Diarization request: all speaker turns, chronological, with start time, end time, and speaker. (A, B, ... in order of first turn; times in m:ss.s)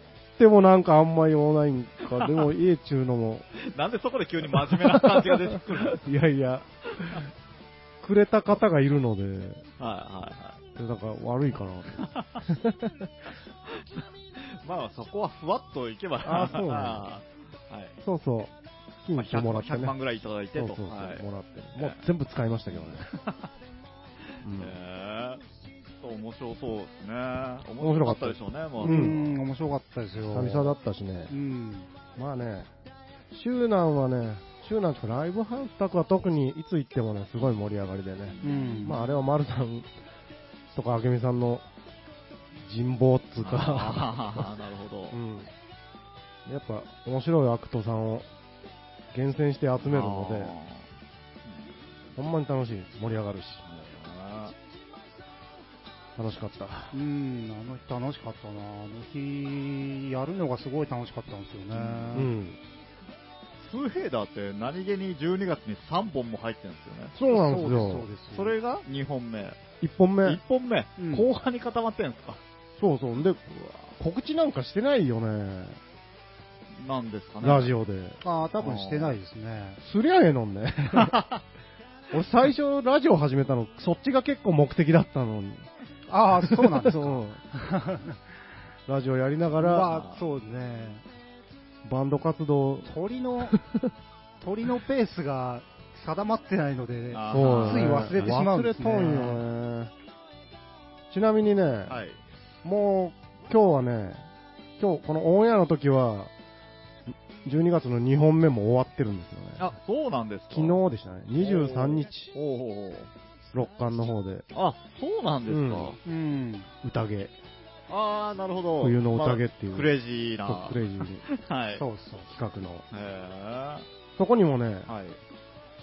0:00.4-0:03.4 A
0:02.2-0:02.4 B
0:03.6-0:06.0 B
0:04.5-0:07.3 A
0:08.0-0:09.6 A
0:09.8-0:10.6 B
0:10.7-0:13.1 A
0:12.0-0:12.5 B
0:13.6-0:18.0 B
0:16.2-0:17.0 A
0:18.0-0:18.5 A
0:19.0-0:19.9 A
0:19.1-0:21.2 B
0:20.5-0:23.1 A
0:21.8-0:22.0 B
0:22.7-0:23.5 B
0:24.4-0:25.4 B
0:24.4-0:24.7 A
0:26.0-0:29.4 B
0:27.8-0:29.2 A
0:28.8-0:30.8 C
0:30.3-0:31.3 A
0:31.3-0:31.9 C
0:32.1-0:32.7 A
0:33.3-0:39.9 A
0:38.3-0:39.2 B
0:38.4-0:39.0 C
0:40.7-0:41.6 A
0:42.6-0:44.5 A
0:43.4-0:45.2 B
0:45.1-0:45.5 A
0:46.4-0:48.2 A
0:49.1-0:50.5 A
0:49.8-0:50.9 B
0:52.2-0:53.6 A
0:53.6-0:54.5 B
0:56.2-0:56.9 A
0:56.9-1:02.3 C
1:01.7-1:02.3 B
1:02.1-1:02.6 A
1:03.6-1:07.1 B
1:07.1-1:08.1 A
1:07.3-1:08.5 C
1:08.3-1:09.6 B
1:09.8-1:10.4 A
1:10.2-1:12.4 B
1:11.0-1:11.3 C
1:12.8-1:15.8 A
1:16.7-1:17.7 B
1:17.4-1:18.2 A
1:18.2-1:19.8 C
1:18.6-1:19.1 B
1:19.8-1:21.2 A
1:21.0-1:21.4 B
1:22.1-1:25.7 A
1:26.1-1:28.2 C
1:26.4-1:27.4 A
1:28.9-1:29.9 A
1:29.6-1:31.0 C
1:29.9-1:30.2 B
1:31.8-1:32.9 A
1:32.8-1:33.6 C
1:33.5-1:33.9 A
1:34.4-1:39.4 C
1:37.1-1:38.4 B
1:37.3-1:39.9 A
1:41.1-1:42.0 A
1:41.9-1:42.2 B
1:42.6-1:44.2 A
1:44.8-1:46.3 A
1:47.1-1:49.7 A
1:49.6-1:50.8 B
1:50.5-1:52.3 A
1:51.4-1:53.1 B
1:53.5-1:54.4 A
1:54.5-1:56.0 B
1:55.5-1:56.0 A
1:56.0-1:56.7 C
1:56.8-1:57.3 A
1:57.9-2:01.8 B
1:58.8-1:59.9 A
2:00.4-2:01.2 A
2:01.7-2:02.3 C
2:02.3-2:02.8 A
2:02.9-2:03.8 B
2:04.2-2:04.9 A
2:04.9-2:05.2 B